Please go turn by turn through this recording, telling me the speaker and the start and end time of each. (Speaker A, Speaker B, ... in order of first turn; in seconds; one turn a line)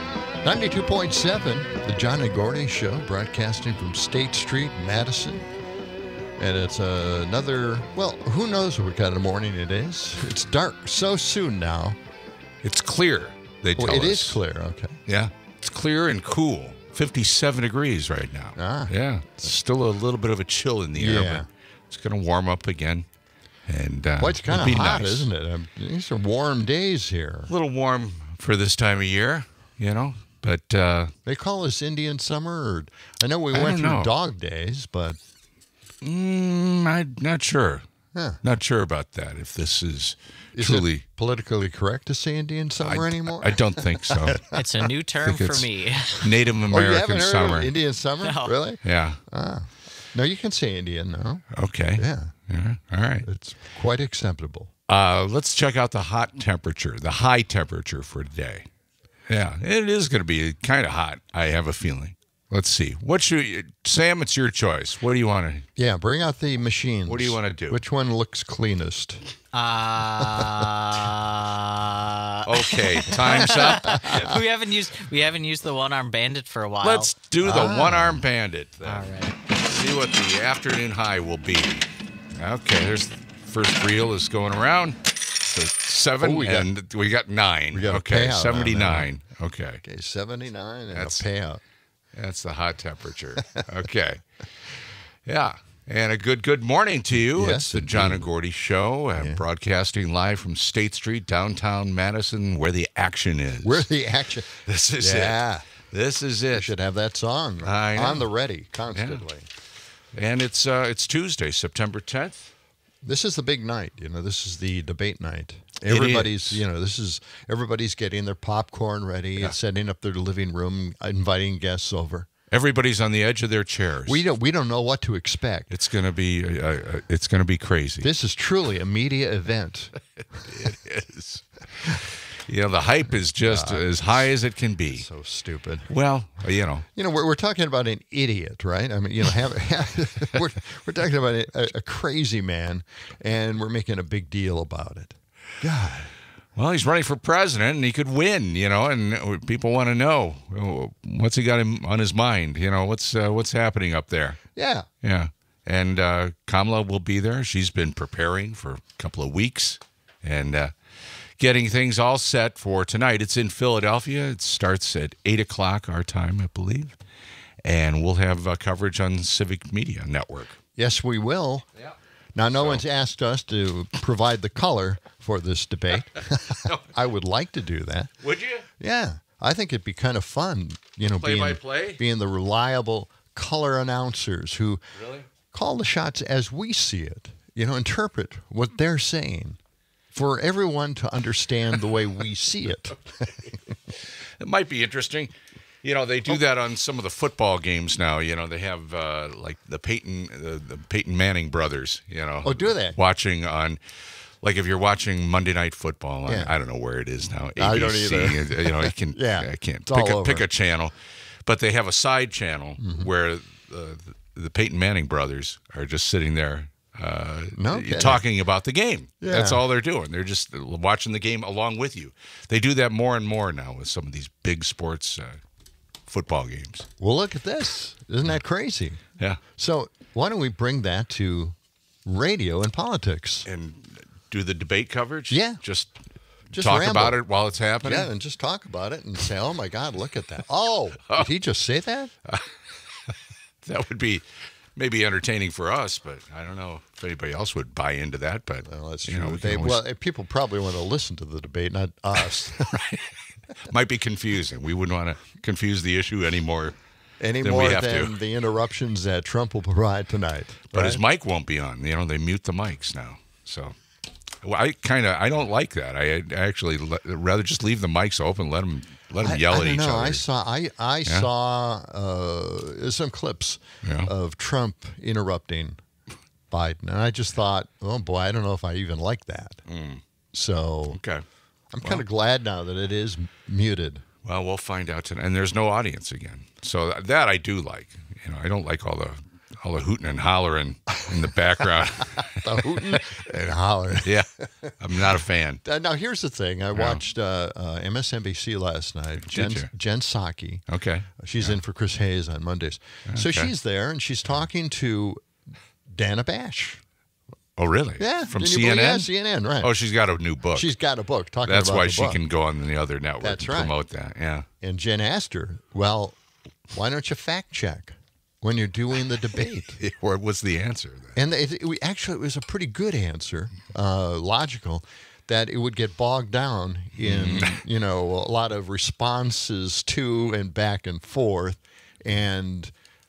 Speaker A: 0.4-5.5
Speaker A: 6.4-12.0
Speaker B: 12.6-14.4
Speaker A: 13.8-15.0
Speaker B: 15.1-23.1
Speaker A: 18.6-19.0
Speaker A: 20.9-21.5
Speaker B: 23.7-25.3
Speaker A: 24.2-27.5
Speaker B: 27.5-31.1
Speaker A: 31.3-35.2
Speaker B: 33.5-34.1
Speaker B: 36.0-37.8
Speaker A: 38.1-38.4
Speaker B: 38.4-41.0
Speaker A: 40.5-44.4
Speaker B: 42.8-44.5
Speaker C: 44.5-46.3
Speaker B: 45.2-47.7
Speaker A: 46.7-51.5
Speaker C: 48.2-48.5
Speaker B: 48.8-49.2
Speaker B: 51.5-53.3
Speaker A: 52.0-52.3
Speaker A: 53.2-54.7
Speaker B: 54.9-58.7
Speaker B: 59.3-65.7
Speaker A: 65.8-69.2
Speaker B: 67.1-67.8
Speaker C: 69.5-77.1
Speaker B: 72.5-74.4
Speaker B: 76.8-89.8
Speaker A: 77.4-78.2
Speaker C: 78.8-79.3
Speaker A: 86.2-86.7
Speaker A: 87.7-89.1
Speaker A: 89.8-91.6
Speaker B: 90.9-91.2
Speaker B: 92.1-94.2
Speaker B: 95.3-103.9
Speaker A: 97.3-98.3
Speaker A: 99.2-99.4
Speaker A: 103.6-105.7
Speaker B: 104.7-106.7
Speaker A: 106.5-109.5
Speaker B: 107.6-108.3
Speaker B: 108.9-109.2
Speaker B: 110.1-112.5
Speaker A: 113.0-122.3
Speaker B: 115.9-116.6
Speaker B: 122.5-124.2
Speaker A: 124.1-125.7
Speaker B: 125.7-128.1
Speaker A: 128.0-129.9
Speaker B: 130.3-135.1
Speaker A: 133.4-134.3
Speaker A: 134.9-135.9
Speaker B: 135.9-136.9
Speaker A: 136.9-146.1
Speaker B: 146.6-154.4
Speaker A: 154.6-154.9
Speaker B: 155.0-160.8
Speaker B: 161.4-167.0
Speaker B: 167.6-170.6
Speaker A: 170.8-171.7
Speaker A: 172.3-178.2
Speaker B: 178.2-178.7
Speaker A: 178.8-184.8
Speaker B: 181.1-182.0
Speaker B: 185.0-185.3
Speaker A: 185.5-189.6
Speaker A: 190.1-193.3
Speaker B: 193.9-195.3
Speaker B: 195.8-203.8
Speaker A: 202.4-203.0
Speaker B: 204.4-225.4
Speaker A: 206.3-206.5
Speaker A: 207.6-210.5
Speaker A: 212.8-213.1
Speaker A: 217.6-218.2
Speaker A: 219.2-219.6
Speaker B: 226.1-226.9
Speaker A: 227.0-229.0
Speaker A: 229.6-233.5
Speaker B: 233.5-236.0
Speaker A: 235.3-235.6
Speaker B: 236.5-238.1
Speaker A: 236.5-237.2
Speaker A: 237.8-242.1
Speaker B: 243.6-249.8
Speaker A: 248.7-252.8
Speaker B: 252.7-253.1
Speaker B: 253.6-256.8
Speaker A: 257.2-261.0
Speaker B: 257.4-258.2
Speaker B: 260.7-263.8
Speaker B: 264.4-270.2
Speaker A: 269.2-275.8
Speaker B: 273.8-274.1
Speaker A: 276.5-279.6
Speaker B: 279.7-280.0
Speaker A: 280.3-281.0
Speaker B: 280.9-281.2
Speaker A: 281.7-284.1
Speaker B: 284.2-293.0
Speaker A: 292.3-294.7
Speaker B: 294.0-295.6
Speaker A: 295.6-300.6
Speaker B: 296.8-297.0
Speaker B: 299.3-299.7
Speaker B: 300.7-301.6
Speaker A: 301.2-305.3
Speaker B: 303.1-303.5
Speaker A: 305.9-306.8
Speaker B: 307.6-310.7
Speaker A: 308.0-309.7
Speaker A: 310.5-312.2
Speaker B: 311.5-314.5
Speaker A: 313.2-313.7
Speaker A: 314.6-319.8
Speaker B: 319.8-321.2
Speaker A: 321.1-332.7
Speaker B: 327.0-327.6